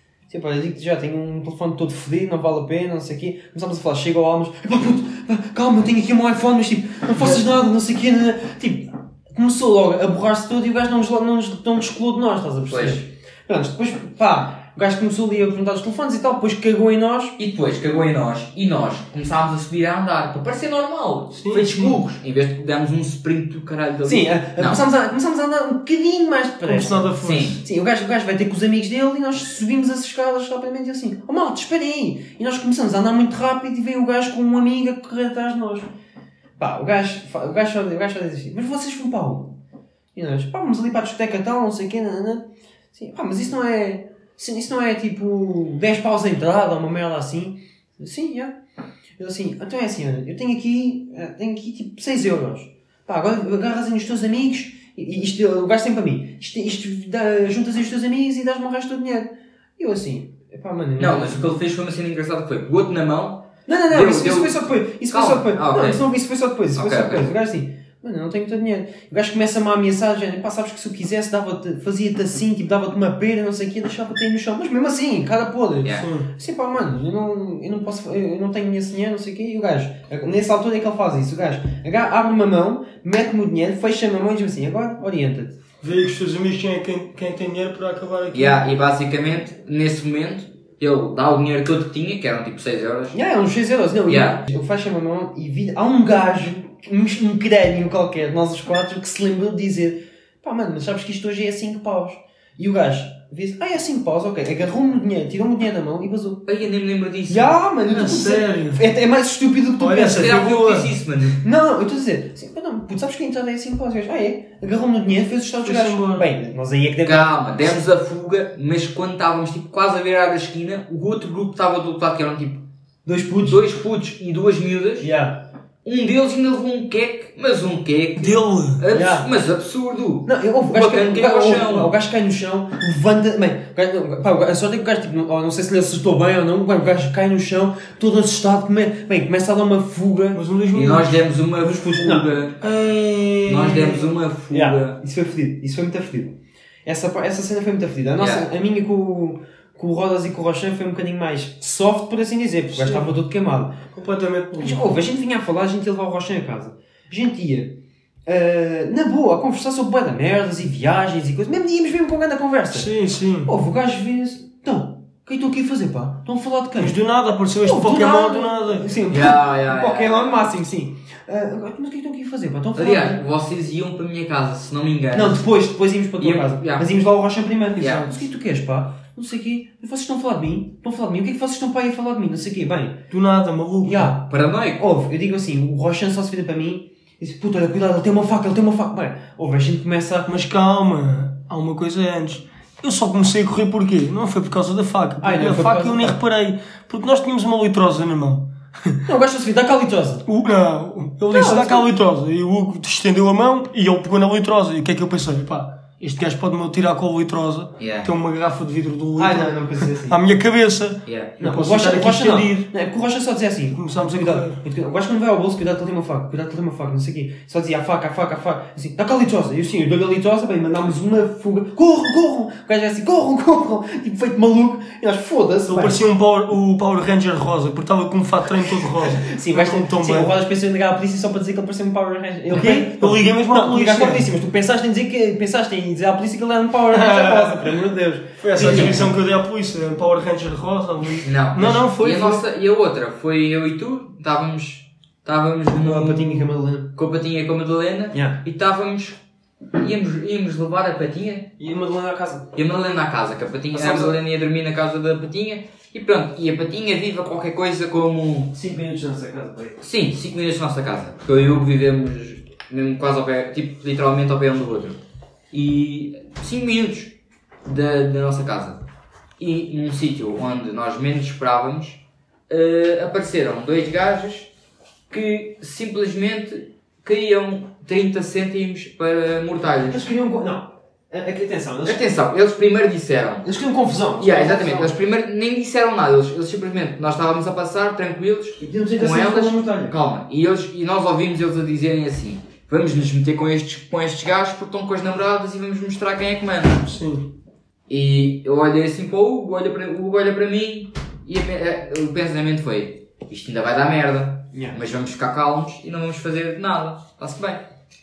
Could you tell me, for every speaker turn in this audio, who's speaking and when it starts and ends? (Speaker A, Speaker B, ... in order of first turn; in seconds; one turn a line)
Speaker A: 0.3-17.3
Speaker B: 12.7-13.0
Speaker B: 17.4-24.8
Speaker C: 21.3-22.0
Speaker A: 24.1-35.9
Speaker C: 26.6-27.6
Speaker B: 27.2-27.6
Speaker A: 36.6-39.5
Speaker A: 40.1-48.6
Speaker A: 49.2-61.5
Speaker B: 61.0-66.1
Speaker A: 63.6-85.6
Speaker B: 66.7-67.3
Speaker C: 75.9-76.3
Speaker C: 85.8-88.6
Speaker B: 88.3-93.2
Speaker A: 93.1-106.4
Speaker B: 94.1-94.4
Speaker B: 106.5-107.6
Speaker A: 107.3-110.4
Speaker C: 107.9-108.8
Speaker C: 109.8-110.9
Speaker B: 110.0-111.4
Speaker A: 111.4-117.3
Speaker C: 115.6-116.3
Speaker B: 117.0-122.6
Speaker A: 123.0-123.6
Speaker B: 123.4-125.1
Speaker A: 125.0-125.4
Speaker B: 125.8-131.9
Speaker C: 128.2-128.8
Speaker A: 128.9-129.3
Speaker A: 130.2-140.4
Speaker C: 140.3-141.3
Speaker B: 140.7-142.7
Speaker A: 141.9-142.3
Speaker C: 142.6-144.1
Speaker B: 143.4-145.0
Speaker A: 144.5-153.8
Speaker B: 148.2-148.5
Speaker C: 152.7-153.1
Speaker C: 153.9-155.0
Speaker A: 154.6-162.9
Speaker C: 162.7-163.5
Speaker A: 163.4-167.0
Speaker C: 166.8-168.9
Speaker A: 167.6-173.2
Speaker B: 169.1-170.5
Speaker B: 172.8-175.4
Speaker A: 175.1-183.1
Speaker B: 176.2-176.9
Speaker C: 177.7-178.3
Speaker B: 177.8-178.1
Speaker C: 183.1-184.1
Speaker A: 183.8-190.3
Speaker B: 184.3-184.8
Speaker C: 190.2-199.0
Speaker A: 195.2-196.2
Speaker A: 199.1-200.2
Speaker C: 200.3-212.7
Speaker A: 201.3-201.9
Speaker B: 207.8-208.1
Speaker A: 209.2-210.2
Speaker B: 211.1-211.3
Speaker A: 211.4-226.0
Speaker C: 213.7-214.6
Speaker C: 225.7-230.3
Speaker A: 229.1-239.1
Speaker C: 232.5-234.3
Speaker C: 236.9-237.8
Speaker C: 238.4-242.4
Speaker B: 238.6-239.0
Speaker B: 241.2-249.2
Speaker A: 245.8-246.9
Speaker A: 248.1-248.4
Speaker B: 249.8-251.5
Speaker A: 251.6-252.5
Speaker B: 252.5-258.5
Speaker A: 253.7-254.1
Speaker A: 258.5-259.8
Speaker B: 259.8-265.0
Speaker B: 265.5-268.8
Speaker B: 269.4-274.5
Speaker B: 275.1-280.0
Speaker A: 279.9-282.0
Speaker B: 281.8-283.5
Speaker A: 283.4-285.0
Speaker B: 284.2-296.9
Speaker A: 288.6-289.9
Speaker C: 296.8-297.3
Speaker B: 297.9-307.6
Speaker A: 304.5-304.8